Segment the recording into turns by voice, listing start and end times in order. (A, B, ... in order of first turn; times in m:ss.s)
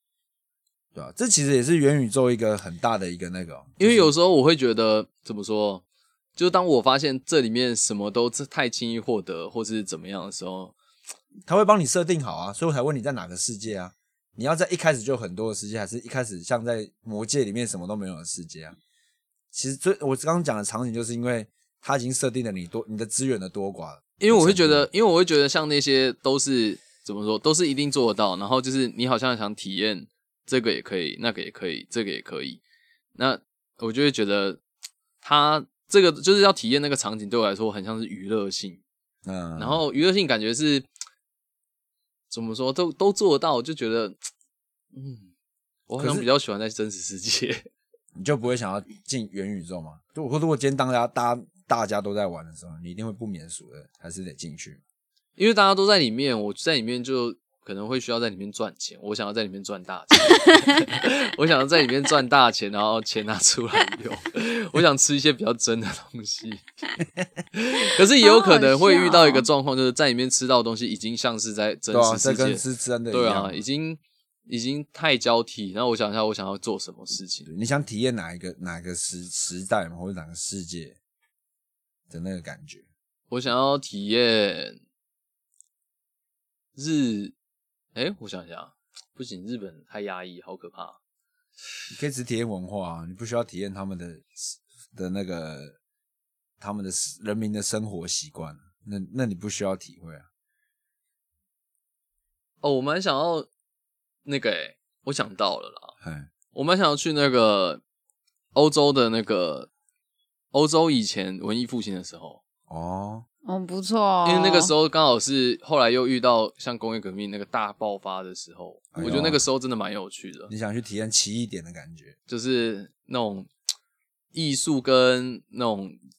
0:01.0-0:04.1 A
0:03.8-0:05.8 B
0:06.4-0:10.8 B
0:11.5-0:18.8 A
0:19.5-0:24.9 A
0:24.2-0:32.6 B
0:33.2-0:34.6 B
0:35.2-0:38.8 B
0:39.2-0:39.8 A
0:39.6-0:40.9 B
0:42.3-0:44.2 B
0:44.9-0:45.3 B
0:45.9-0:47.7 B
0:46.0-0:46.3 A
0:48.2-0:54.8 A
0:55.4-1:06.6 B
1:07.6-1:17.5 B
1:08.2-1:09.5 C
1:11.9-1:13.6 A
1:17.4-1:21.0 A
1:22.1-1:22.8 A
1:23.3-1:24.8 B
1:26.8-1:27.3 B
1:28.0-1:31.0 B
1:31.9-1:35.8 A
1:36.6-1:40.2 A
1:42.6-1:43.5 B
1:44.2-1:45.9 B
1:46.0-1:46.3 A
1:46.5-1:47.8 B
1:48.5-1:49.7 B
1:50.5-1:52.4 B
1:52.7-1:53.2 A
1:53.4-1:54.7 C
1:54.2-2:00.5 B
1:58.9-1:59.4 A
2:00.5-2:02.2 A
2:02.3-2:03.5 B
2:04.3-2:06.0 B